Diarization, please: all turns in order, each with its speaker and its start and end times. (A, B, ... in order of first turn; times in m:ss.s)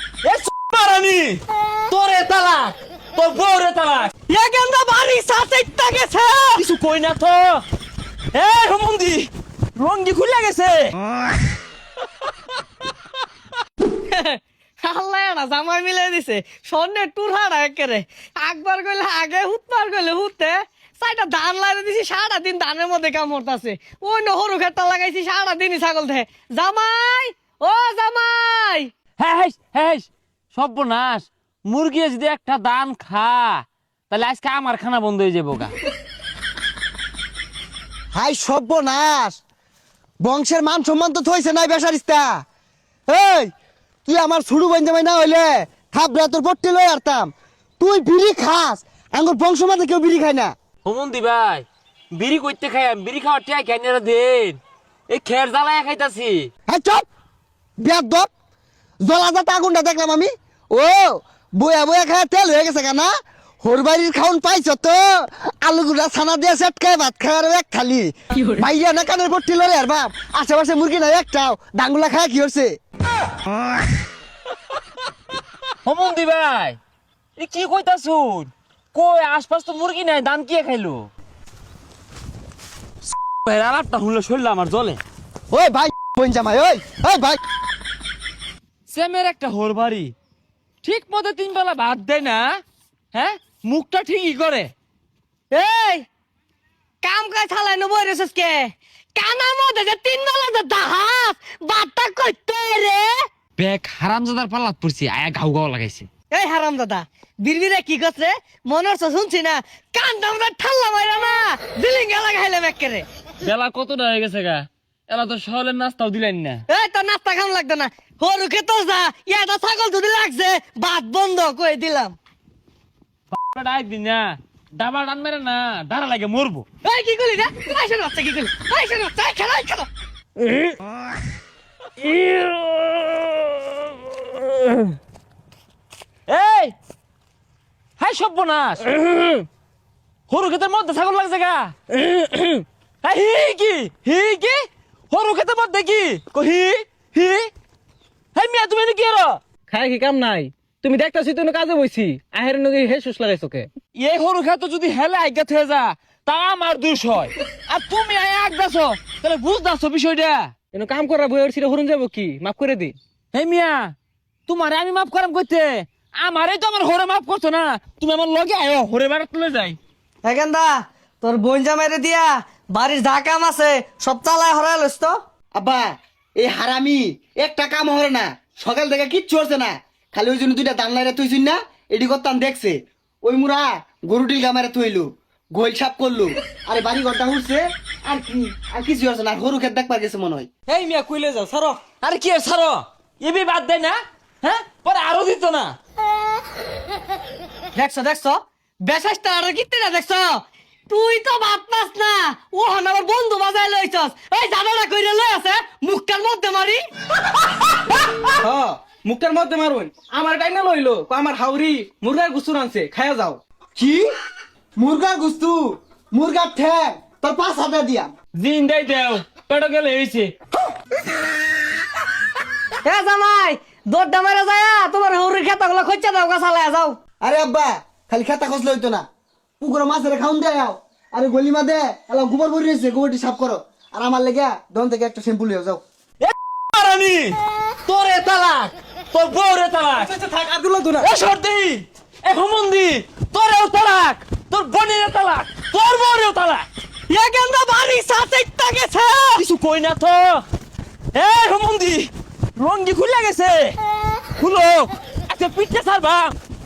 0:00.2-0:04.1 A
0:04.3-0:06.6 B
0:06.6-0:07.6 A
0:08.3-0:11.0 A
0:14.1-0:28.9 B
0:29.2-0:35.7 A
0:38.1-0:39.4 C
0:40.2-0:42.4 C
0:43.1-0:43.5 C
0:44.1-0:50.5 C
0:50.8-0:54.6 A
0:55.1-0:56.5 A
0:56.7-0:57.0 C
0:57.8-0:58.3 C
0:59.0-1:03.1 C
1:03.6-1:12.7 C
1:15.8-1:16.8 A
1:17.4-1:21.1 A
1:23.2-1:25.0 A
1:25.5-1:27.4 C
1:28.9-1:30.1 A
1:30.8-1:32.6 A
1:33.1-1:34.7 A
1:35.5-1:36.0 B
1:37.0-1:43.1 B
1:43.6-1:46.1 A
1:46.3-1:53.0 B
1:53.4-1:56.6 A
1:56.7-2:02.1 B
2:03.3-2:06.6 A
2:06.8-2:09.9 B
2:16.3-2:16.8 A
2:18.0-2:19.0 A
2:20.3-2:21.7 A
2:21.9-2:22.6 D
2:23.0-2:27.5 A
2:28.4-2:29.4 A
2:29.7-2:33.7 D
2:34.0-2:40.5 A
2:40.7-2:43.0 D
2:43.3-2:43.9 A
2:44.5-2:49.8 A
2:50.2-2:55.1 B
2:55.6-3:10.5 C
3:10.7-3:11.8 D
3:12.0-3:15.7 A
3:17.7-3:26.8 B
3:28.4-3:33.4 D
3:33.8-3:34.1 C
3:34.8-3:38.1 C
3:38.4-3:40.3 A
3:42.8-3:47.0 B
3:47.2-3:49.0 C
3:49.6-3:55.8 C
3:56.2-4:00.1 A
4:00.0-4:01.1 D
4:01.0-4:06.7 A
4:07.1-4:09.4 B
4:09.4-4:10.4 A
4:11.1-4:13.8 A
4:14.4-4:16.4 A